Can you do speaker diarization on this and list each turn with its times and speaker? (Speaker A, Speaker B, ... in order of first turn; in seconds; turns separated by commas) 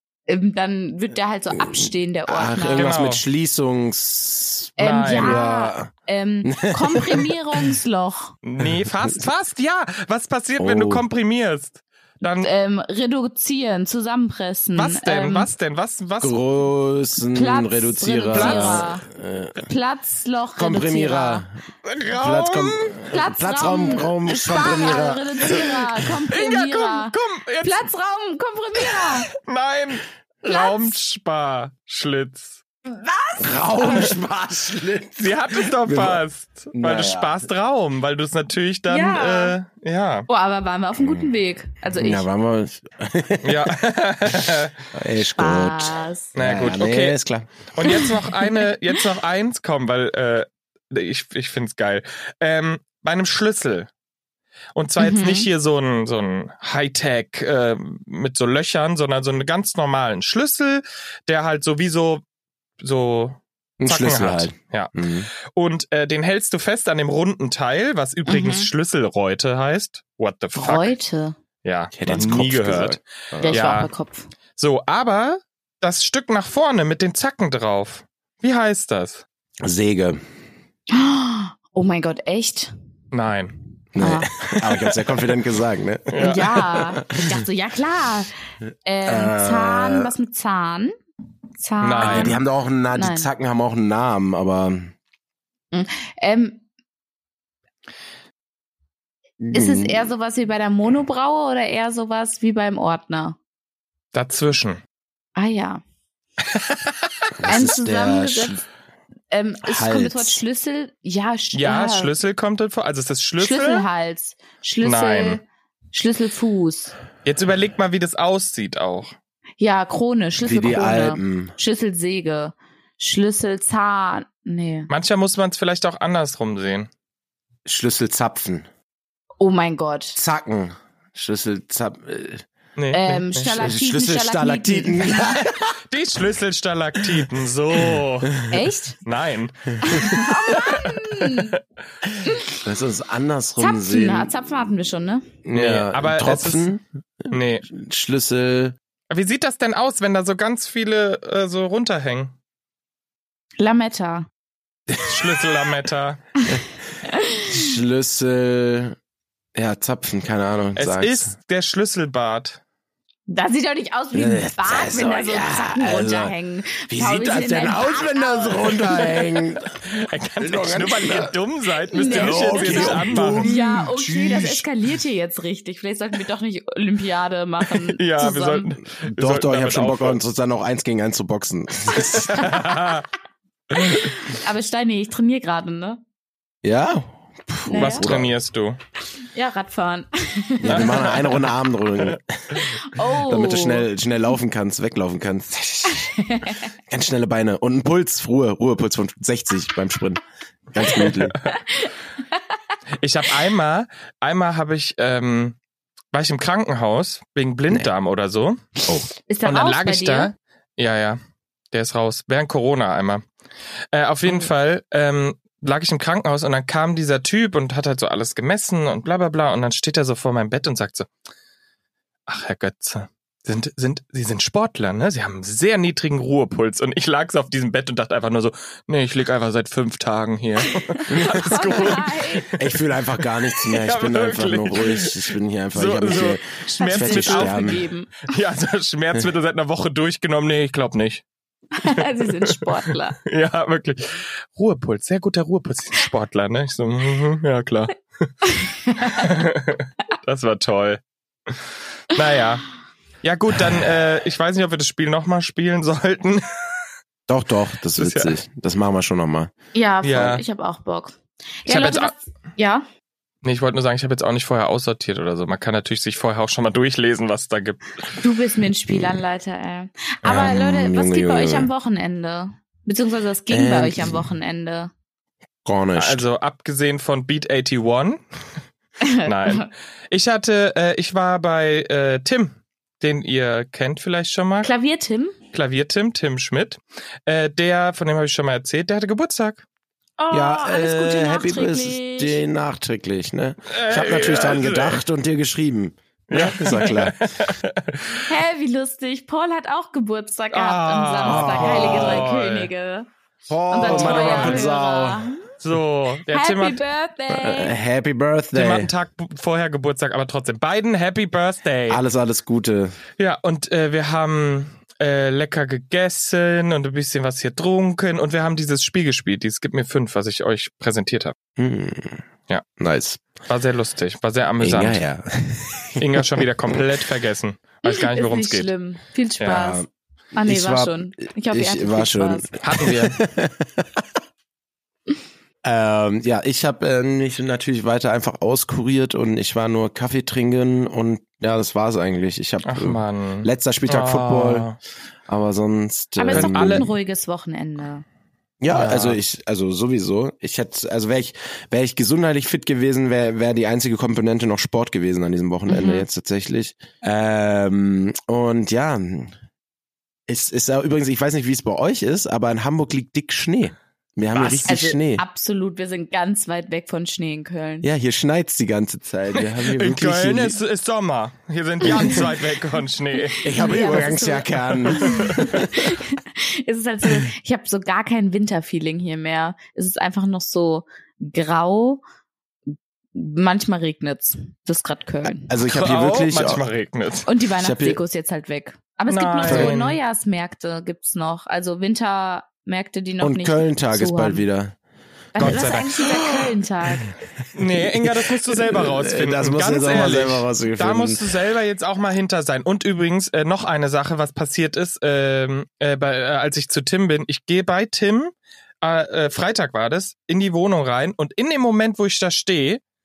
Speaker A: 0.3-3.0, Speaker B: 1.6-5.9, Speaker C: 2.6-3.2, Speaker A: 4.8-8.3, Speaker C: 4.8-5.4, Speaker B: 6.5-7.3, Speaker C: 8.4-12.5, Speaker B: 10.6-11.1, Speaker A: 12.4-15.5, Speaker C: 14.7-16.4, Speaker B: 16.2-19.7, Speaker A: 17.3-19.1, Speaker C: 18.3-18.9, Speaker A: 19.6-21.4, Speaker B: 20.6-21.6, Speaker C: 21.8-23.0, Speaker B: 22.1-25.9, Speaker A: 23.1-29.3, Speaker C: 26.3-27.9, Speaker C: 29.3-32.6, Speaker A: 30.5-30.9, Speaker A: 32.9-34.1, Speaker B: 33.4-36.2, Speaker C: 35.2-40.3, Speaker B: 36.7-37.4, Speaker A: 38.9-39.6, Speaker A: 40.3-42.3, Speaker B: 41.0-41.3, Speaker B: 41.9-43.8, Speaker C: 43.4-44.8, Speaker B: 44.3-47.5, Speaker A: 45.2-46.3, Speaker C: 46.4-47.2, Speaker C: 47.8-53.9, Speaker A: 47.8-48.6, Speaker C: 54.8-62.2, Speaker A: 55.0-55.5, Speaker C: 62.8-64.9, Speaker B: 63.8-65.3, Speaker C: 65.5-70.9, Speaker A: 68.3-68.7, Speaker A: 70.5-71.4, Speaker C: 71.6-73.9, Speaker B: 71.9-73.8, Speaker A: 73.4-74.3, Speaker C: 74.6-79.2, Speaker B: 79.6-80.2, Speaker A: 80.9-82.7, Speaker C: 83.1-83.6, Speaker B: 84.0-87.4, Speaker A: 84.0-84.3, Speaker C: 86.1-86.4, Speaker A: 86.2-88.3, Speaker A: 88.8-91.0, Speaker B: 89.1-90.1, Speaker A: 91.6-92.4, Speaker C: 91.8-92.4, Speaker B: 92.0-95.0, Speaker A: 92.9-93.3, Speaker A: 95.7-96.6, Speaker B: 99.4-100.1, Speaker A: 99.5-103.4, Speaker C: 104.1-104.8, Speaker A: 105.4-105.8, Speaker C: 106.5-106.9, Speaker B: 107.4-108.7, Speaker A: 107.5-108.6, Speaker A: 109.3-112.1, Speaker B: 109.6-110.4, Speaker C: 111.5-113.9, Speaker A: 113.4-116.9, Speaker C: 114.8-115.4, Speaker C: 117.2-119.1, Speaker A: 119.6-124.9, Speaker B: 120.4-121.5, Speaker C: 124.9-126.9, Speaker B: 127.7-128.7, Speaker A: 129.4-130.2, Speaker B: 130.2-132.5, Speaker C: 132.8-133.5, Speaker A: 132.9-135.4, Speaker B: 133.4-135.8, Speaker C: 135.5-138.5, Speaker A: 138.5-139.0, Speaker C: 139.1-141.6, Speaker A: 139.8-141.6, Speaker A: 142.2-142.6, Speaker B: 142.6-144.3, Speaker A: 143.6-145.3, Speaker B: 145.4-148.8, Speaker C: 145.5-146.7, Speaker C: 147.3-147.7, Speaker C: 149.1-152.3, Speaker A: 153.6-154.3, Speaker B: 154.9-155.3, Speaker C: 155.0-156.2, Speaker A: 157.1-157.5, Speaker B: 157.5-159.0, Speaker B: 159.6-161.3, Speaker C: 160.8-162.6, Speaker A: 163.3-169.4, Speaker B: 164.1-166.3, Speaker B: 166.9-169.8, Speaker C: 169.8-173.5, Speaker B: 170.4-171.3, Speaker A: 171.9-178.7, Speaker B: 171.9-174.7, Speaker C: 177.7-180.2, Speaker B: 179.0-182.6, Speaker C: 181.9-183.1, Speaker A: 183.8-186.0, Speaker B: 186.6-188.3, Speaker A: 187.7-188.1, Speaker C: 187.7-188.8, Speaker A: 189.3-191.2, Speaker B: 190.6-196.1, Speaker A: 192.8-193.9, Speaker A: 195.9-196.7, Speaker B: 196.9-200.2, Speaker B: 200.7-201.4, Speaker C: 201.0-201.6, Speaker A: 201.6-201.9, Speaker C: 203.0-205.6, Speaker C: 206.1-208.7, Speaker A: 208.9-210.3, Speaker C: 209.4-211.2, Speaker C: 211.7-213.2, Speaker C: 213.9-221.1, Speaker C: 222.3-232.7, Speaker A: 230.7-232.5, Speaker B: 231.1-231.5, Speaker B: 232.5-237.8, Speaker C: 233.5-241.2, Speaker A: 236.8-238.3, Speaker A: 241.8-243.2, Speaker C: 241.8-252.7, Speaker A: 248.5-249.3, Speaker C: 253.2-256.8, Speaker B: 257.3-259.5, Speaker C: 257.9-258.3, Speaker A: 259.7-262.9, Speaker C: 260.0-260.4, Speaker C: 261.7-262.1, Speaker C: 263.4-268.0, Speaker A: 268.2-274.9, Speaker B: 270.2-271.7, Speaker B: 273.5-274.3, Speaker B: 275.6-276.3, Speaker C: 276.0-278.2, Speaker A: 279.0-279.7, Speaker C: 279.2-284.7, Speaker A: 284.6-285.4, Speaker C: 285.5-289.6, Speaker A: 290.2-292.4, Speaker B: 290.3-297.2, Speaker C: 293.7-295.0, Speaker C: 296.3-298.2, Speaker A: 298.3-303.1, Speaker C: 300.5-302.7, Speaker B: 301.2-302.3, Speaker B: 303.5-305.3, Speaker A: 303.7-305.5, Speaker C: 303.8-304.7, Speaker C: 305.6-306.8, Speaker A: 306.3-307.7, Speaker B: 307.3-308.9, Speaker C: 308.5-312.0, Speaker B: 311.9-313.0, Speaker C: 313.2-321.3, Speaker B: 321.6-322.2, Speaker B: 322.8-323.2, Speaker C: 323.4-325.0, Speaker B: 324.6-326.9, Speaker C: 326.0-328.7, Speaker A: 327.9-329.8, Speaker C: 329.4-329.7, Speaker B: 329.5-329.9, Speaker A: 330.4-332.6, Speaker B: 330.4-334.1, Speaker C: 332.6-333.2, Speaker B: 335.6-344.7, Speaker C: 342.6-344.8, Speaker B: 345.3-346.9, Speaker A: 346.2-348.0, Speaker C: 346.3-346.9, Speaker B: 348.6-359.3, Speaker C: 348.7-349.2, Speaker A: 355.7-356.1, Speaker B: 360.3-365.2, Speaker C: 364.3-364.7, Speaker A: 364.7-367.9, Speaker B: 367.8-370.6, Speaker C: 369.4-373.5, Speaker A: 371.8-372.4, Speaker A: 373.2-382.0, Speaker B: 373.4-375.7, Speaker C: 374.9-375.6, Speaker A: 383.1-385.5, Speaker B: 385.5-386.7, Speaker C: 385.6-387.3, Speaker A: 387.3-394.4, Speaker B: 387.6-388.0, Speaker C: 389.1-390.0, Speaker B: 389.4-389.8, Speaker B: 393.2-394.8, Speaker A: 395.4-397.1, Speaker C: 395.4-396.1, Speaker B: 395.5-396.5, Speaker C: 397.5-412.8, Speaker B: 397.8-401.3